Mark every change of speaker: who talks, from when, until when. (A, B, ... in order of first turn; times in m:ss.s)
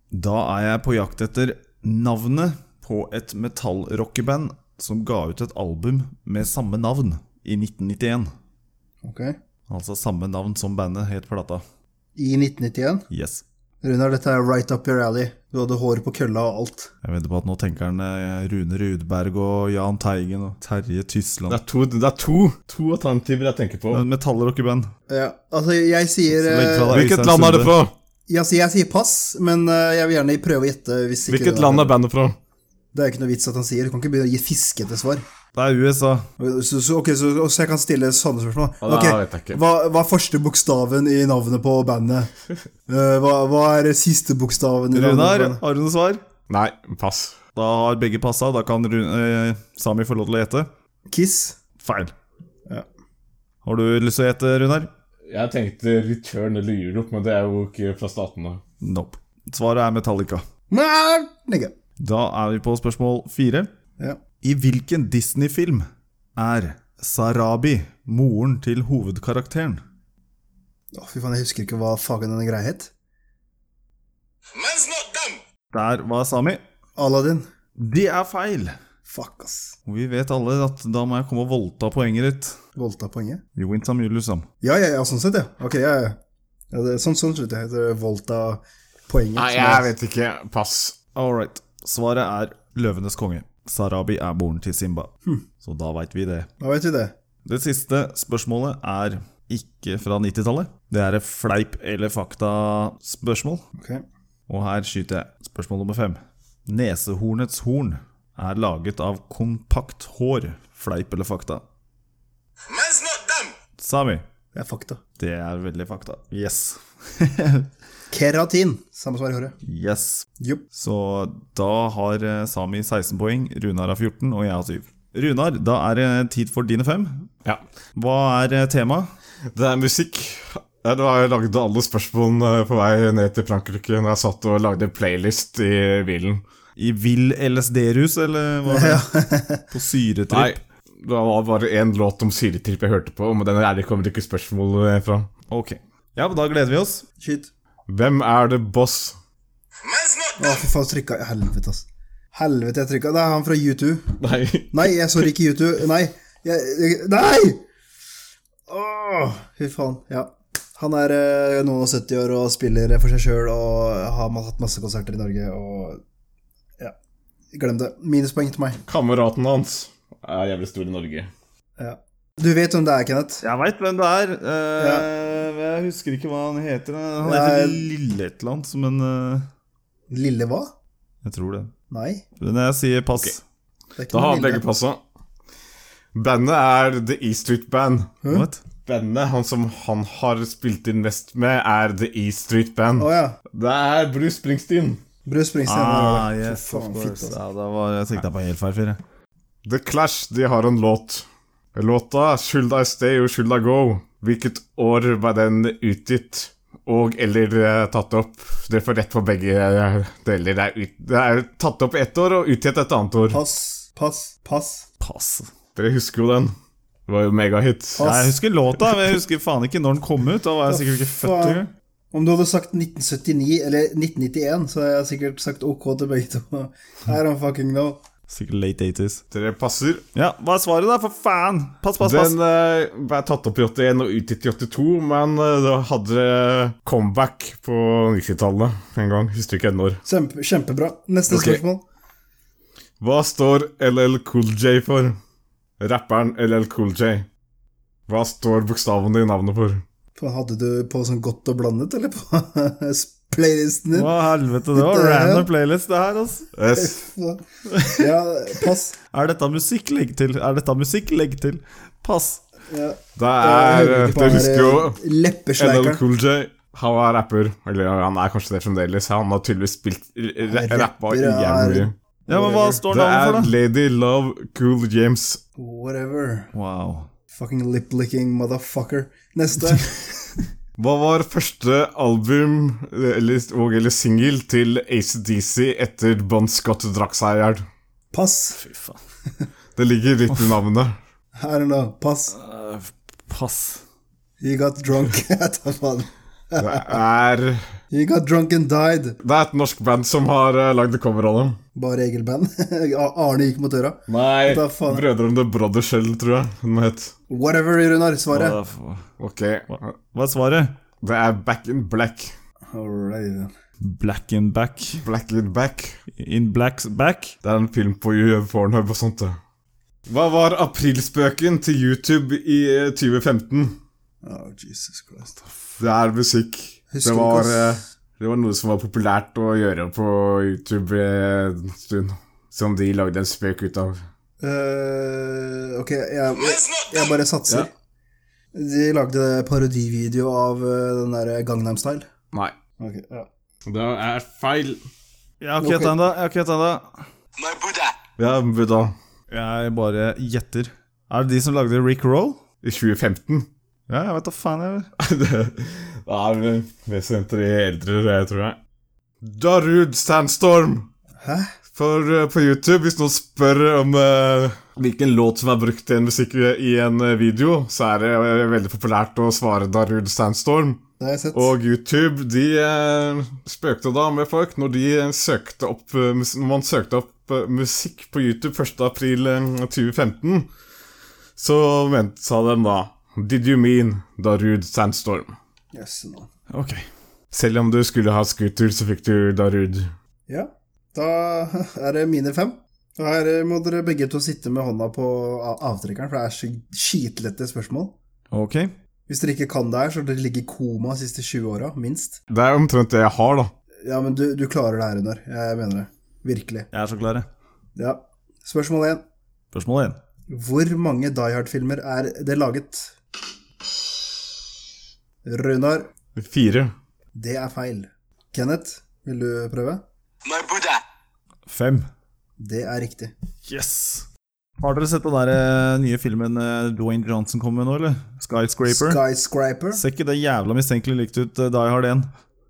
0:00.1-0:08.3 A
0:09.0-0:09.4 B
0:09.7-0:11.6 A
0:12.2-0:13.1 B
0:13.1-0:13.4 A
0:13.8-0:16.9 B
0:17.0-0:21.6 A
0:21.5-0:24.0 C
0:23.9-0:24.9 A
0:25.1-0:27.0 B
0:26.3-0:27.8 A
0:26.9-0:27.9 C
0:28.3-0:31.9 B
0:31.3-0:32.4 C
0:32.9-0:35.2 B
0:35.6-0:36.3 A
0:36.4-0:42.3 B
0:38.8-0:39.6 C
0:42.9-0:45.6 B
0:44.9-0:46.2 A
0:46.5-0:47.4 C
0:47.6-0:50.7 A
0:51.1-0:51.6 B
0:51.8-0:52.1 A
0:53.6-0:54.9 A
0:55.3-0:58.6 C
0:58.8-1:00.5 A
1:00.7-1:01.7 B
1:02.0-1:03.7 A
1:04.4-1:09.8 A
1:10.9-1:12.9 B
1:14.5-1:15.4 D
1:15.7-1:16.6 A
1:17.0-1:17.5 B
1:17.8-1:18.8 A
1:19.1-1:19.8 B
1:19.9-1:22.6 A
1:22.8-1:23.4 B
1:23.6-1:24.5 A
1:24.6-1:26.2 B
1:26.7-1:29.9 B
1:29.4-1:31.0 C
1:31.2-1:36.5 A
1:36.6-1:37.1 B
1:37.5-1:43.6 A
1:43.8-1:44.0 B
1:44.5-1:51.6 A
1:52.7-1:53.5 D
1:53.8-1:54.2 A
1:54.5-1:55.0 B
1:55.2-1:57.7 A
1:58.1-1:59.6 B
1:59.6-2:07.3 A
2:08.0-2:09.1 A
2:09.5-2:16.4 C
2:16.8-2:19.1 A
2:18.7-2:19.6 B
2:19.7-2:20.6 A
2:20.3-2:25.3 C
2:25.5-2:27.0 A
2:27.2-2:27.5 B
2:27.9-2:29.2 C
2:29.8-2:30.6 D
2:30.4-2:34.2 B
2:34.2-2:34.9 C
2:34.7-2:37.6 B
2:38.7-2:46.0 B
2:47.5-2:48.8 B
2:48.9-2:51.3 C
2:51.8-2:53.4 B
2:53.4-2:59.5 A
2:54.8-2:55.1 B
2:57.2-2:57.9 B
3:00.1-3:00.7 B
3:01.2-3:01.7 A
3:01.9-3:02.2 B
3:02.4-3:03.4 A
3:04.0-3:04.6 B
3:04.1-3:05.0 C
3:06.1-3:08.1 C
3:08.3-3:08.6 A
3:08.9-3:15.0 C
3:13.0-3:13.4 B
3:15.3-3:17.4 B
3:15.7-3:19.0 A
3:19.6-3:33.4 C
3:33.3-3:34.9 B
3:35.0-3:35.5 A
3:35.8-3:36.5 C
3:37.1-3:38.0 C
3:38.0-3:38.4 B
3:38.0-3:41.7 A
3:40.7-3:48.0 B
3:48.3-3:49.2 A
3:49.3-3:50.0 C
3:50.1-3:52.4 A
3:52.0-4:00.0 C
4:00.1-4:01.8 B
4:01.3-4:01.6 C
4:03.0-4:05.2 C
4:05.8-4:07.3 C
4:08.1-4:09.8 C
4:10.2-4:14.1 B
4:13.9-4:16.5 A
4:14.7-4:15.5 B
4:16.6-4:17.0 C
4:16.8-4:19.0 B
4:17.7-4:18.0 A
4:19.1-4:22.4 A
4:22.7-4:26.0 B
4:23.2-4:25.0 C
4:25.6-4:31.9 C
4:30.4-4:32.8 B
4:32.3-4:33.5 A
4:32.9-4:35.4 C
4:35.6-4:36.5 B
4:36.5-4:37.1 A
4:37.3-4:40.0 B
4:40.8-4:47.6 C
4:48.1-4:48.6 B
4:48.6-4:49.0 A
4:49.8-4:51.0 C
4:51.4-4:52.4 B
4:52.3-4:53.8 A
4:54.4-4:57.0 B
4:56.6-4:57.7 C
4:57.9-4:59.2 B
4:59.2-5:01.6 C
5:01.8-5:05.1 B
5:04.1-5:07.1 C
5:07.3-5:08.6 B
5:08.3-5:09.1 A
5:09.2-5:09.9 C
5:09.7-5:10.8 A
5:11.0-5:12.3 C
5:12.7-5:13.5 B
5:13.8-5:15.0 A
5:15.0-5:16.0 C
5:16.1-5:17.4 A
5:17.4-5:19.4 C
5:20.1-5:23.8 C
5:24.2-5:25.4 B
5:25.8-5:34.0 C
5:26.9-5:27.8 B
5:34.4-5:37.7 B
5:36.4-5:37.2 D
5:38.5-5:42.1 B
5:42.8-5:43.3 B
5:43.7-5:44.8 C
5:45.4-5:47.0 A
5:45.6-5:46.0 B
5:47.4-5:48.0 D
5:48.2-5:48.9 C
5:49.3-5:52.4 A
5:52.6-5:53.5 C
5:53.9-5:54.9 A
5:55.0-5:58.6 C
5:59.2-6:00.9 C
6:01.2-6:01.5 B
6:01.7-6:10.8 C
6:11.0-6:11.5 B
6:11.3-6:20.5 C
6:21.4-6:25.4 C
6:25.7-6:26.3 B
6:26.5-6:26.9 A
6:27.3-6:29.9 C
6:30.3-6:37.9 B
6:38.3-6:38.7 A
6:39.1-6:42.2 B
6:42.3-6:43.5 C
6:43.8-6:46.7 B
6:46.7-6:47.3 A
6:47.8-6:49.0 B
6:49.5-6:50.0 A
6:50.3-6:52.9 B
6:55.2-6:55.9 B
6:56.2-6:56.7 C
6:57.1-6:59.8 B
7:00.2-7:00.8 D
7:01.5-7:01.9 A
7:02.4-7:03.1 B
7:03.5-7:04.1 A
7:04.6-7:09.0 A
7:08.7-7:09.8 B
7:09.7-7:12.1 A